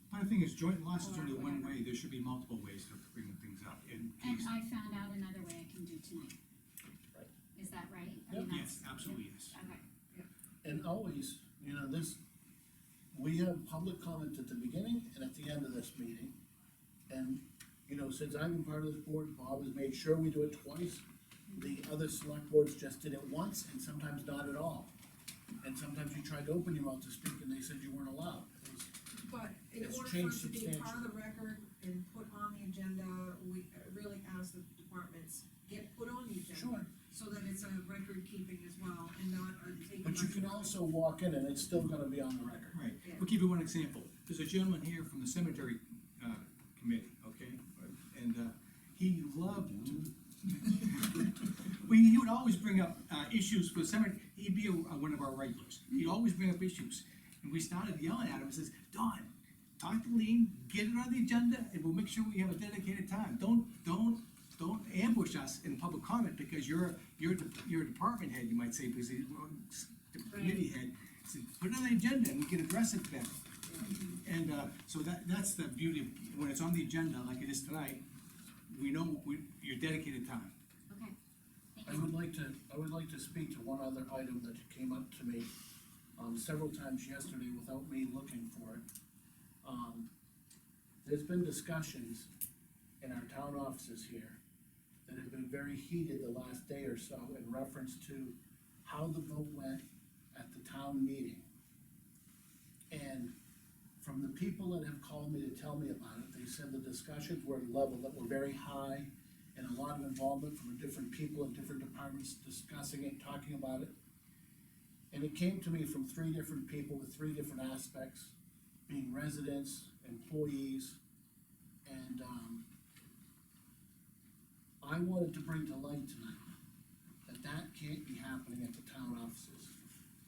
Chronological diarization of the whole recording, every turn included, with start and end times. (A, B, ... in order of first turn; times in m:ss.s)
0:00.1-0:04.5 A
0:01.0-0:01.8 B
0:04.2-0:06.4 B
0:07.5-0:09.8 B
0:08.5-0:09.5 A
0:10.6-0:12.2 C
0:13.1-0:16.3 C
0:17.1-0:24.9 C
0:25.6-0:28.9 C
0:29.2-0:40.8 D
0:29.8-0:31.0 C
0:36.5-0:36.9 C
0:40.0-0:42.8 C
0:42.7-1:13.5 A
1:10.3-1:10.6 B
1:13.7-1:13.9 D
1:13.8-1:14.2 B
1:14.2-1:18.0 A
1:18.7-1:20.5 A
1:20.9-1:21.2 B
1:21.8-1:22.1 B
1:21.8-1:25.5 C
1:26.2-1:28.8 C
1:29.6-1:30.1 C
1:31.0-1:32.3 C
1:33.0-1:34.4 C
1:35.0-1:41.4 C
1:42.9-1:43.3 C
1:44.0-1:54.0 C
1:55.1-1:58.3 C
1:58.9-2:01.0 C
2:01.8-2:02.7 C
2:04.8-2:06.5 C
2:07.3-2:09.8 C